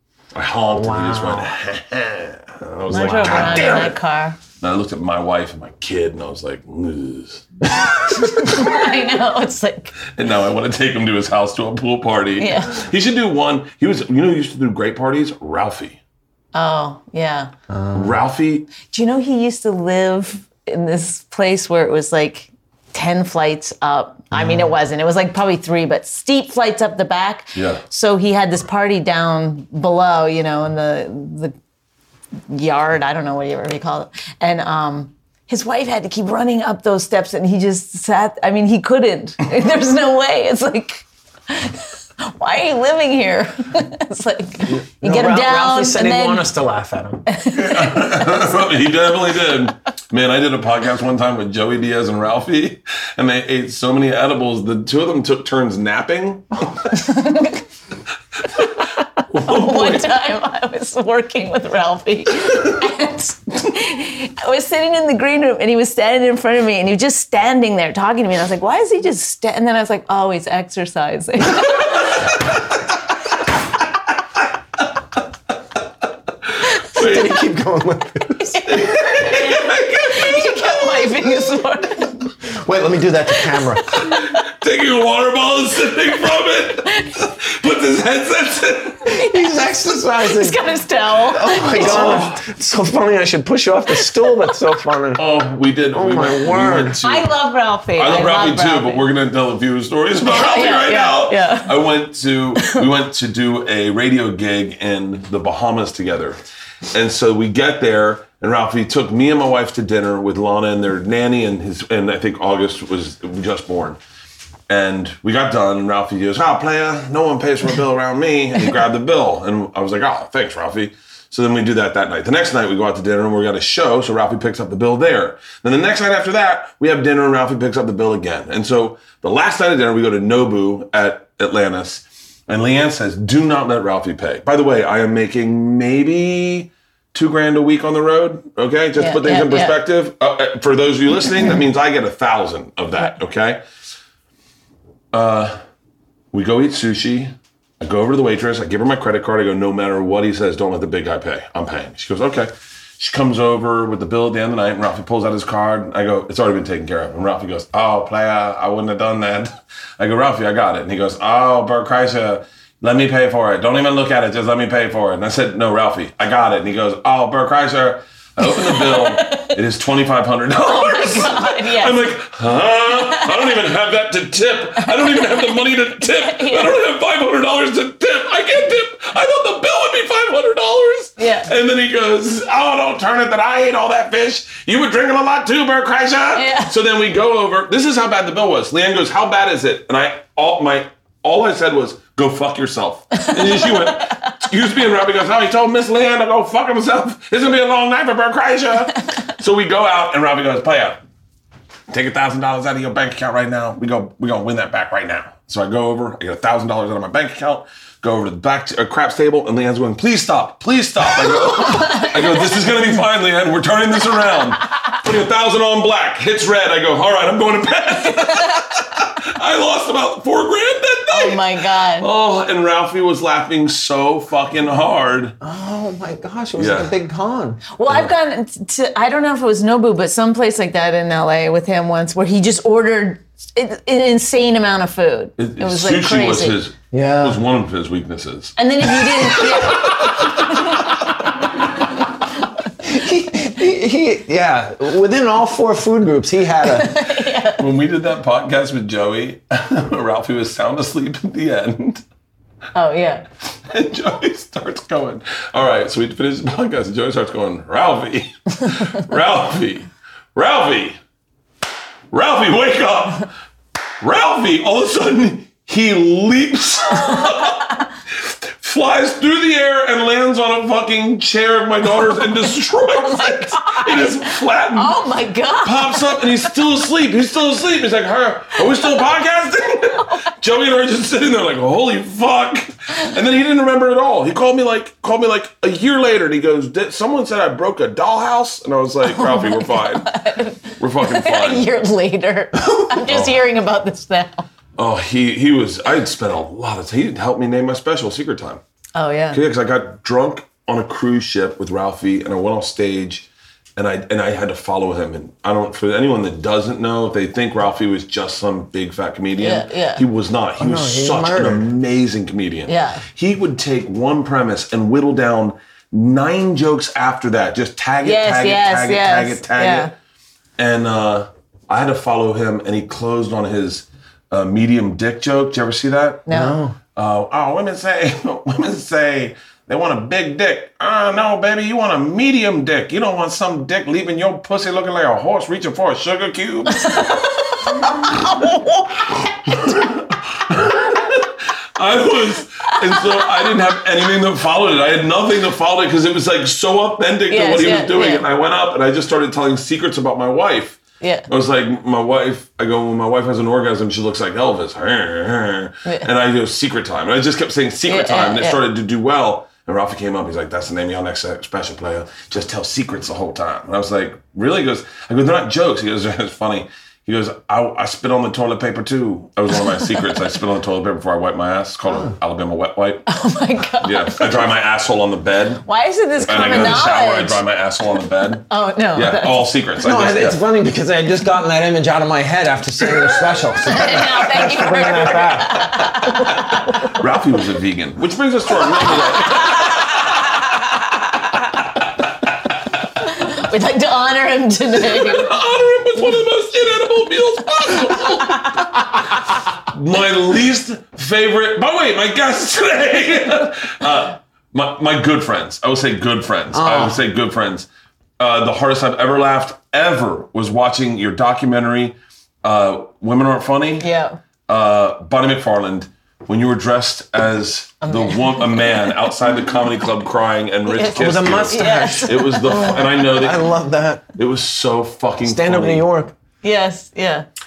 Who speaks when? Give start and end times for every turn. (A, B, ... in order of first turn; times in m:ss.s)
0:00.3-0:04.0 A
0:00.7-0:01.5 B
0:02.9-0:04.4 C
0:03.2-0:03.7 B
0:04.6-0:08.8 A
0:08.2-0:09.9 C
0:10.2-0:16.0 A
0:12.4-0:12.8 C
0:16.5-0:17.5 C
0:17.7-0:18.2 B
0:17.9-0:18.7 A
0:18.8-0:31.5 C
0:24.3-0:24.6 B
0:27.6-0:27.8 A
0:32.5-0:46.5 C
0:44.7-0:47.2 B
0:47.3-0:48.5 C
0:47.5-0:56.9 A
0:56.9-0:57.6 C
0:59.3-1:00.1 A
0:59.4-1:12.2 C
1:16.7-1:17.4 A
1:16.9-1:18.8 B
1:18.4-1:22.3 C
1:18.7-1:21.3 A
1:22.5-1:23.9 B
1:23.6-1:24.3 C
1:24.0-1:29.2 A
1:29.1-1:32.2 C
1:29.1-1:30.6 B
1:31.3-1:35.2 B
1:31.7-1:32.4 A
1:35.2-1:37.3 A
1:35.9-1:37.1 B
1:37.0-1:39.1 C
1:38.0-1:46.4 A
1:40.3-1:41.8 C
1:46.9-1:54.0 A
1:54.7-2:23.6 A
2:19.0-2:19.8 C
2:25.1-2:25.6 A
2:26.3-3:21.0 A
2:48.4-2:49.6 C
2:50.6-2:52.0 C
2:53.0-2:53.6 C
2:54.8-2:56.8 C
3:01.2-3:01.5 C
3:06.4-3:06.7 C
3:21.9-3:45.4 A
3:31.4-3:32.5 C
3:41.1-3:42.1 C
3:45.4-3:47.6 B
3:46.6-3:46.9 A
3:47.7-3:56.6 C
3:55.4-4:00.5 A
3:56.9-3:57.4 B
3:58.6-4:01.1 C
4:02.8-4:07.1 B
4:06.6-4:07.6 C
4:07.6-4:12.0 A
4:12.8-4:13.2 C
4:13.7-4:21.0 A
4:22.1-4:23.3 A
4:24.0-4:35.0 A
4:32.9-4:36.3 C
4:35.6-4:50.1 A
4:49.0-4:54.5 C
4:50.8-4:51.7 A
4:53.1-4:53.4 A
4:54.8-4:58.6 A
4:59.0-4:59.4 C
4:59.3-5:19.9 A
5:09.4-5:10.1 C
5:10.6-5:11.7 B
5:12.7-5:13.0 C
5:18.0-5:19.9 C
5:20.6-5:26.3 A
5:26.3-5:26.6 C
5:26.3-5:26.8 B
5:27.0-5:37.3 A
5:36.8-5:39.1 C
5:37.9-5:38.2 A
5:39.4-6:13.0 A
5:47.3-5:48.2 C
5:51.0-5:51.3 C
5:57.9-5:58.6 C
6:13.1-6:14.5 C
6:13.8-6:15.6 A
6:15.6-6:17.4 C
6:16.2-6:20.4 A
6:18.5-6:19.5 C
6:19.8-6:26.2 B
6:23.0-6:24.1 A
6:23.7-6:26.7 C
6:26.8-6:30.4 A
6:33.1-6:35.3 C
6:34.8-6:39.0 A
6:39.7-6:47.7 A
6:46.5-6:47.0 B
6:48.2-6:53.9 A
6:53.8-6:54.2 C
6:54.5-7:03.5 A
6:57.8-6:58.9 C
7:00.7-7:03.1 C
7:00.8-7:04.1 B
7:04.2-7:05.8 A
7:05.2-7:06.1 B
7:06.4-7:07.3 C